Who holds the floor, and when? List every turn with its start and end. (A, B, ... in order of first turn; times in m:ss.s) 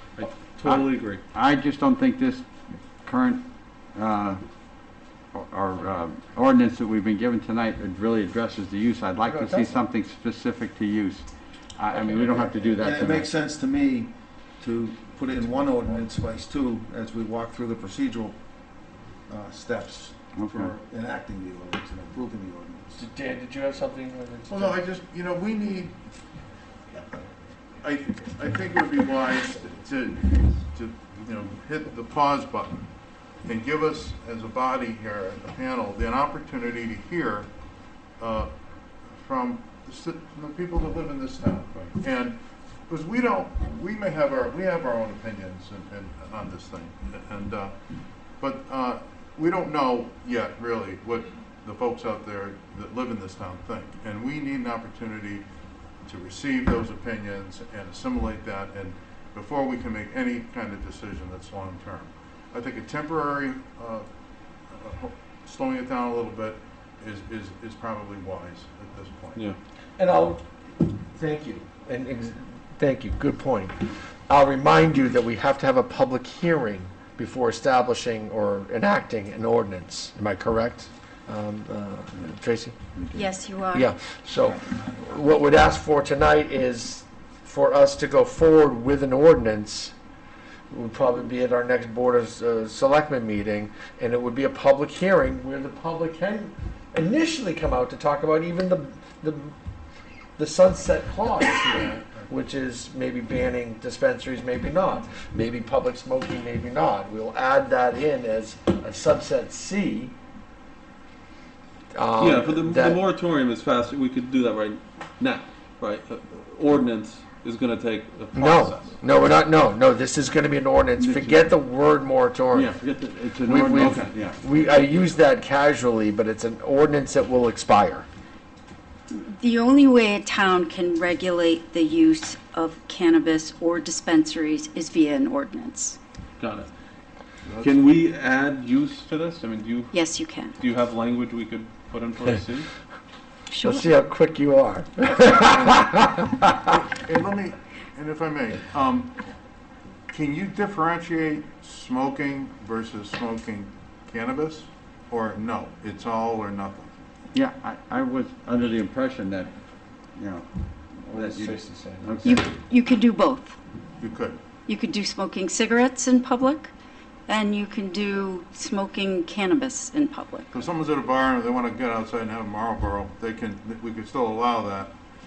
0:00.2-0:01.2 A
0:00.7-0:02.4 B
0:03.0-0:04.4 B
0:05.3-0:13.3 B
0:09.2-0:09.8 C
0:12.7-0:18.4 D
0:19.3-0:23.0 D
0:20.4-0:20.7 B
0:23.0-0:24.8 C
0:24.5-0:26.0 E
0:27.8-0:32.9 E
0:33.4-0:37.5 E
0:38.2-0:38.5 E
0:39.1-0:47.7 E
0:48.4-0:55.4 E
0:56.0-1:04.1 E
1:04.7-1:09.4 E
1:10.0-1:10.4 C
1:11.0-1:22.8 C
1:23.1-1:23.9 F
1:23.7-1:29.9 C
1:30.7-1:39.5 C
1:40.4-1:50.1 C
1:51.9-1:53.0 C
1:52.2-1:59.0 A
1:58.3-2:02.7 C
2:01.0-2:01.5 B
2:02.5-2:04.4 B
2:03.4-2:08.1 C
2:09.1-2:16.0 F
2:16.4-2:16.7 A
2:17.4-2:17.8 E
2:17.6-2:19.9 A
2:19.9-2:20.6 F
2:20.6-2:22.7 A
2:23.5-2:23.9 F
2:23.6-2:26.3 C
2:25.4-2:29.2 E
2:30.1-2:36.9 E
2:37.3-2:39.5 B
2:40.1-2:42.4 B
2:41.1-2:42.4 C
2:42.2-2:43.6 F
2:44.0-2:44.4 E
2:44.7-2:46.7 F
2:47.3-2:50.5 F
2:50.5-2:55.0 E